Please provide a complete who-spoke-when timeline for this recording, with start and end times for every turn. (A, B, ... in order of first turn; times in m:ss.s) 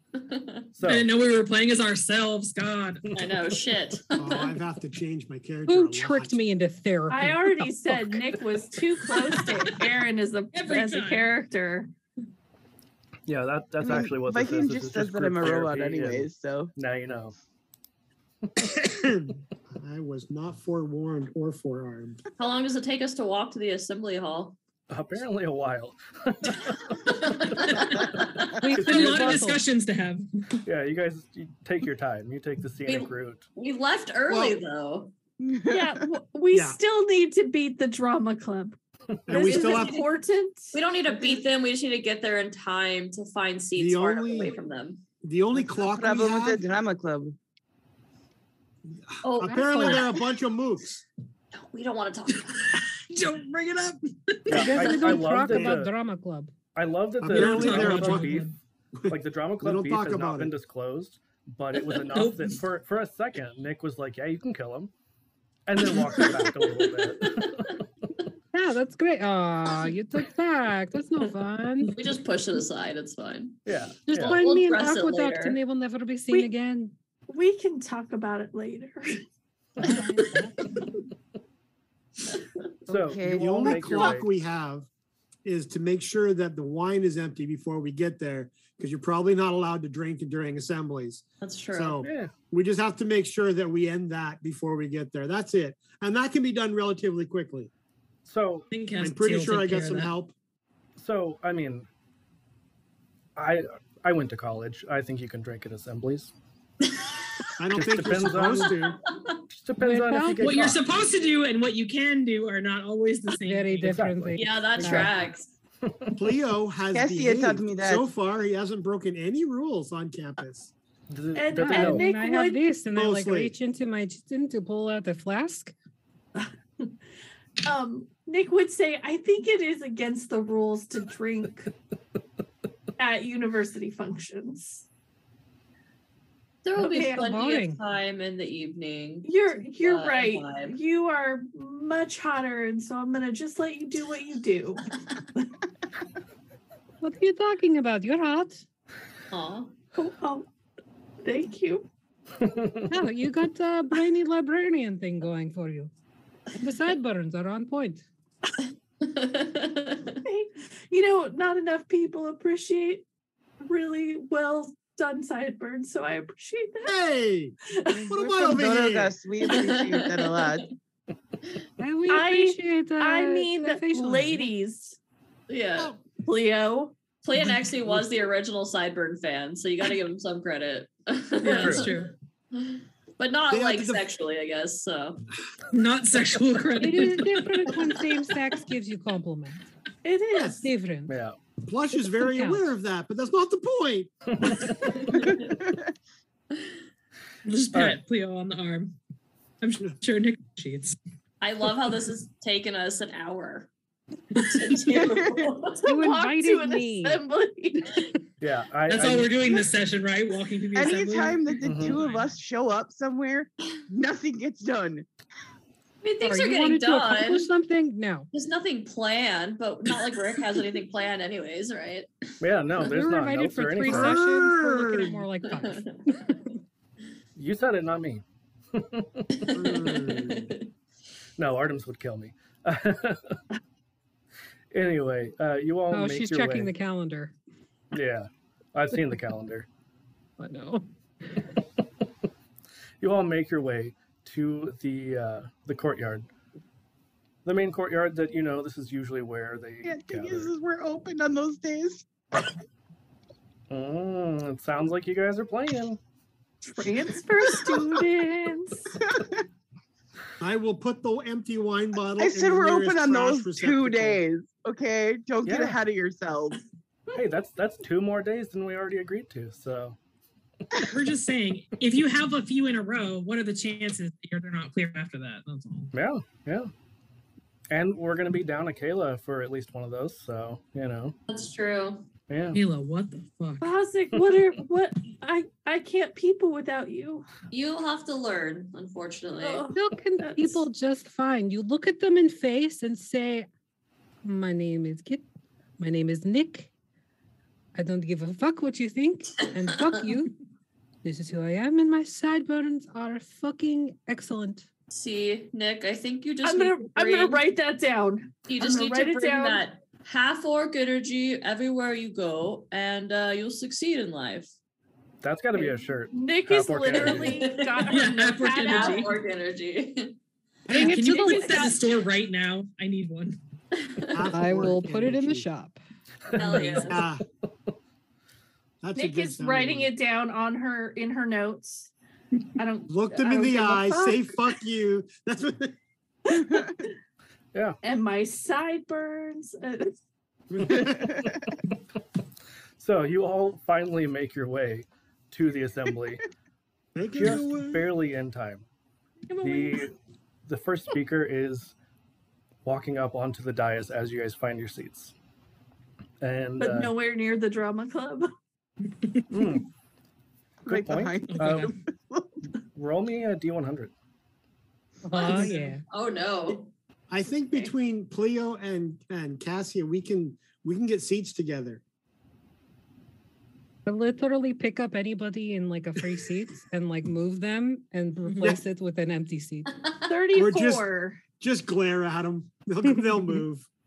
0:00.2-0:00.7 A
0:00.8-0:01.1 B
0:00.8-0:03.1 C
0:03.1-0:04.6 A
0:04.2-0:06.4 D
0:05.7-0:07.6 E
0:07.1-0:11.9 F
0:10.5-0:11.3 C
0:13.3-0:17.4 B
0:13.8-0:16.7 G
0:18.7-0:22.2 D
0:22.4-0:24.6 A
0:24.9-0:29.5 B
0:27.1-0:28.5 A
0:28.6-0:29.6 E
0:28.8-0:30.6 C
0:30.6-0:33.5 B
0:32.9-0:35.1 A
0:34.3-0:34.6 D
0:35.4-0:36.0 G
0:35.7-0:38.8 F
0:36.5-0:36.8 D
0:39.3-0:40.0 D
0:39.3-0:40.8 F
0:39.3-0:40.1 A
0:40.7-0:45.0 A
0:43.8-0:44.6 D
0:45.2-0:46.6 D
0:45.6-0:47.4 G
0:49.1-0:51.0 D
0:49.2-0:50.2 A
0:49.4-0:50.1 E
0:51.5-0:52.8 A
0:52.3-0:55.1 C
0:54.5-0:55.9 B
0:54.5-0:56.5 E
0:55.5-0:55.7 D
0:56.8-0:58.5 B
0:57.2-0:58.4 D
0:57.2-0:58.6 C
0:59.0-1:00.5 D
0:59.1-1:04.9 B
1:01.7-1:02.6 C
1:05.7-1:07.8 B
1:05.9-1:07.8 A
1:08.5-1:11.9 E
1:11.9-1:13.6 A
1:13.7-1:14.4 B
1:14.1-1:16.9 E
1:14.2-1:15.6 A
1:17.3-1:19.2 F
1:19.8-1:20.6 E
1:22.9-1:24.2 G
1:22.9-1:24.3 B
1:23.2-1:24.9 D
1:25.4-1:37.7 D
1:31.4-1:32.0 A
1:32.0-1:32.3 B
1:38.3-1:38.7 B
1:38.7-1:40.1 C
1:39.0-1:40.3 D
1:41.0-1:41.9 B
1:43.4-1:46.3 B
1:47.6-1:49.0 D
1:47.7-1:48.8 B
1:49.5-1:50.8 B
1:49.8-1:50.7 E
1:50.4-1:54.1 C
1:53.4-1:55.2 E
1:53.8-1:55.0 B
1:54.4-1:55.5 A
1:55.8-1:56.2 B
1:56.2-2:00.7 D
1:56.9-1:58.1 G
2:01.1-2:02.1 B
2:01.3-2:02.6 F
2:01.6-2:05.7 E
2:02.9-2:03.6 D
2:06.4-2:06.9 F
2:07.6-2:11.7 F
2:13.0-2:14.9 F
2:16.6-2:20.8 A
2:16.8-2:17.3 F
2:17.2-2:17.8 E
2:19.2-2:25.4 F
2:27.0-2:28.6 E
2:29.3-2:29.7 A
2:30.0-2:30.5 F
2:31.2-2:31.9 F
2:32.4-2:33.0 B
2:32.9-2:35.9 E
2:36.6-2:38.1 E
2:39.0-2:40.2 A
2:40.2-2:43.0 F
2:43.6-2:46.9 F
2:46.8-2:47.6 D
2:47.8-2:48.1 F
2:47.9-2:50.7 G
2:48.1-2:49.1 D
2:49.5-2:50.5 A
2:51.8-2:54.5 E
2:52.1-2:55.0 F
2:55.5-2:56.0 A
2:56.2-2:57.0 F
2:57.2-3:05.2 A
3:01.4-3:02.1 C
3:01.6-3:01.9 B
3:03.5-3:04.0 D
3:05.7-3:07.8 C
3:06.8-3:09.7 E
3:10.0-3:10.7 F
3:10.6-3:11.2 E
3:11.1-3:11.4 B
3:11.6-3:14.1 D
3:12.3-3:12.7 E
3:14.3-3:15.0 B
3:17.5-3:19.0 C
3:17.7-3:18.0 B
3:19.6-3:21.0 C
3:21.4-3:23.7 A
3:24.4-3:25.8 A
3:25.8-3:28.0 F
3:25.8-3:27.2 E
3:28.4-3:29.6 B
3:28.9-3:32.2 C
3:30.7-3:35.1 G
3:31.6-3:32.0 B
3:36.0-3:37.5 A
3:36.2-3:38.3 E
3:38.3-3:42.3 A
3:42.4-3:44.2 B
3:42.8-3:46.5 E
3:43.9-3:45.2 D
3:45.5-3:45.9 A
3:47.4-3:49.5 B
3:49.4-3:50.6 A
3:49.5-3:50.5 D
3:51.4-3:53.4 B
3:54.7-3:56.7 B
3:55.9-3:57.3 E
3:57.9-3:59.7 B
4:00.4-4:01.4 E
4:03.0-4:06.3 B
4:07.4-4:10.5 B
4:09.8-4:12.1 G
4:13.7-4:16.0 B
4:16.6-4:19.0 F
4:19.0-4:19.3 G
4:20.4-4:24.2 D
4:22.2-4:26.6 G
4:25.4-4:25.8 B
4:27.1-4:30.0 B
4:30.9-4:35.9 C
4:35.9-4:36.7 B
4:37.7-4:41.2 B
4:41.3-4:42.1 A
4:42.3-4:42.6 B
4:42.5-4:43.7 C
4:43.6-4:47.3 F
4:47.5-4:49.7 A
4:49.4-4:50.6 F
4:49.7-4:53.5 E
4:54.2-4:55.2 E
4:55.8-4:56.7 E
4:57.8-5:00.4 E
5:01.0-5:04.7 E
5:04.9-5:07.4 A
5:06.4-5:09.6 F
5:08.5-5:14.5 A
5:15.2-5:17.4 B
5:15.6-5:19.1 F
5:17.2-5:18.0 A
5:17.9-5:19.2 C
5:18.7-5:20.2 A
5:20.7-5:23.4 C
5:20.7-5:21.7 E
5:20.7-5:21.8 F
5:23.8-5:24.3 A
5:24.1-5:25.5 D
5:24.3-5:25.8 E
5:26.3-5:27.0 B
5:26.3-5:27.0 A
5:26.4-5:26.9 E
5:26.8-5:27.2 D
5:28.8-5:29.9 D
5:29.0-5:31.9 F
5:32.6-5:34.4 F
5:32.9-5:35.8 D
5:36.3-5:36.9 F
5:37.8-5:40.0 F
5:40.5-5:41.0 D
5:40.7-5:41.3 B
5:42.8-5:46.2 B
5:47.0-5:47.9 D
5:47.2-5:48.6 B
5:49.3-5:49.9 C
5:49.4-5:50.0 B
5:50.5-5:51.8 B
5:52.6-5:55.1 B
5:56.2-5:56.9 B
5:56.6-5:58.3 F
5:59.3-5:59.7 B
6:00.7-6:01.7 B
6:00.7-6:02.3 G
6:01.3-6:01.7 C
6:02.8-6:03.9 B
6:05.0-6:05.8 E
6:05.2-6:05.7 C
6:05.9-6:06.7 A
6:07.1-6:11.8 D
6:13.9-6:19.7 E
6:20.1-6:21.2 F
6:20.4-6:20.9 D
6:21.4-6:23.7 D